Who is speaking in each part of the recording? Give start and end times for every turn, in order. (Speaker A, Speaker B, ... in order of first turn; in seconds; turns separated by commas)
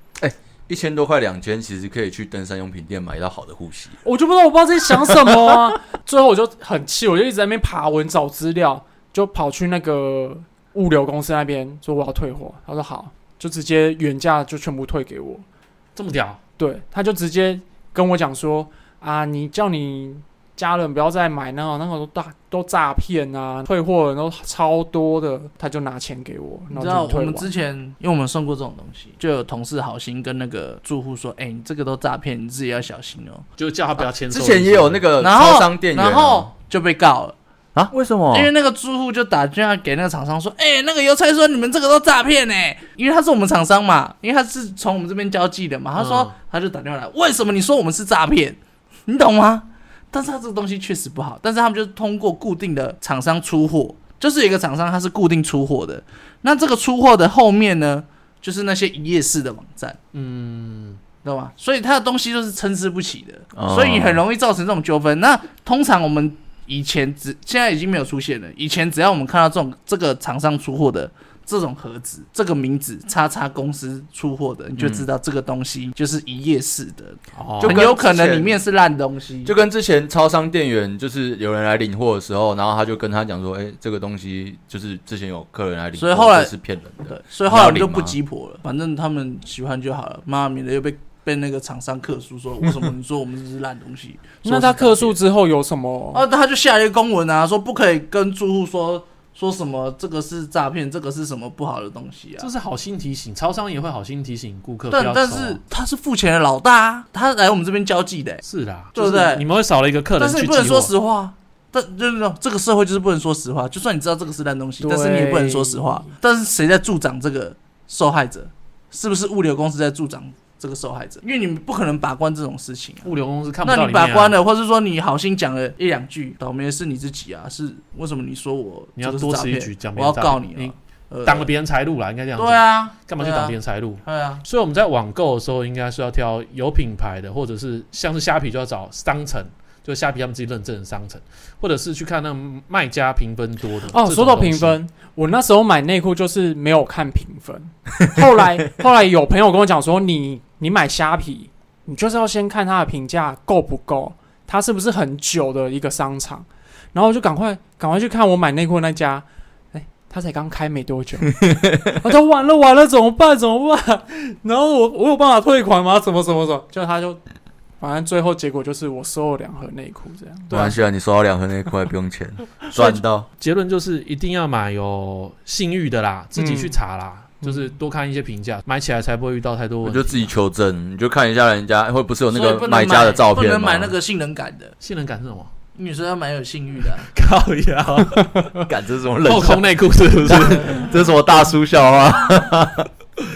Speaker A: 0.2-4.0, Speaker B: 4.0-15.4, Speaker A: 5.1-5.6, Speaker C: 15.9-16.4, Speaker B: 16.6-27.5, Speaker D: 26.7-33.4, Speaker C: 33.6-35.1, Speaker A: 34.3-36.5, Speaker D: 35.2-37.3, Speaker A: 37.7-38.5, Speaker D: 38.3-60.0, Speaker C: 46.0-46.3, Speaker C: 60.1-61.0, Speaker D: 61.2-79.5, Speaker A: 63.5-64.2, Speaker C: 74.8-75.0, Speaker C: 77.3-77.9, Speaker A: 77.6-78.5, Speaker A: 79.4-88.2, Speaker D: 86.0-86.5, Speaker D: 87.0-95.2, Speaker B: 94.4-96.2, Speaker D: 96.1-102.5, Speaker C: 102.4-105.6, Speaker D: 104.9-109.5, Speaker C: 108.4-110.9, Speaker D: 110.2-123.1, Speaker B: 114.8-116.1, Speaker C: 123.0-124.3, Speaker D: 123.6-131.5, Speaker C: 129.0-144.8, Speaker D: 132.4-134.4, Speaker B: 143.9-167.2, Speaker A: 161.4-162.0, Speaker B: 167.8-170.8, Speaker A: 170.5-173.3, Speaker B: 172.7-173.0, Speaker C: 173.4-180.3, Speaker B: 176.3-176.8, Speaker B: 177.4-177.7, Speaker A: 179.8-183.9, Speaker D: 182.3-184.7, Speaker C: 184.8-185.5, Speaker D: 185.7-187.1, Speaker C: 187.1-188.3, Speaker B: 188.0-188.7, Speaker A: 188.7-192.9, Speaker C: 189.2-190.9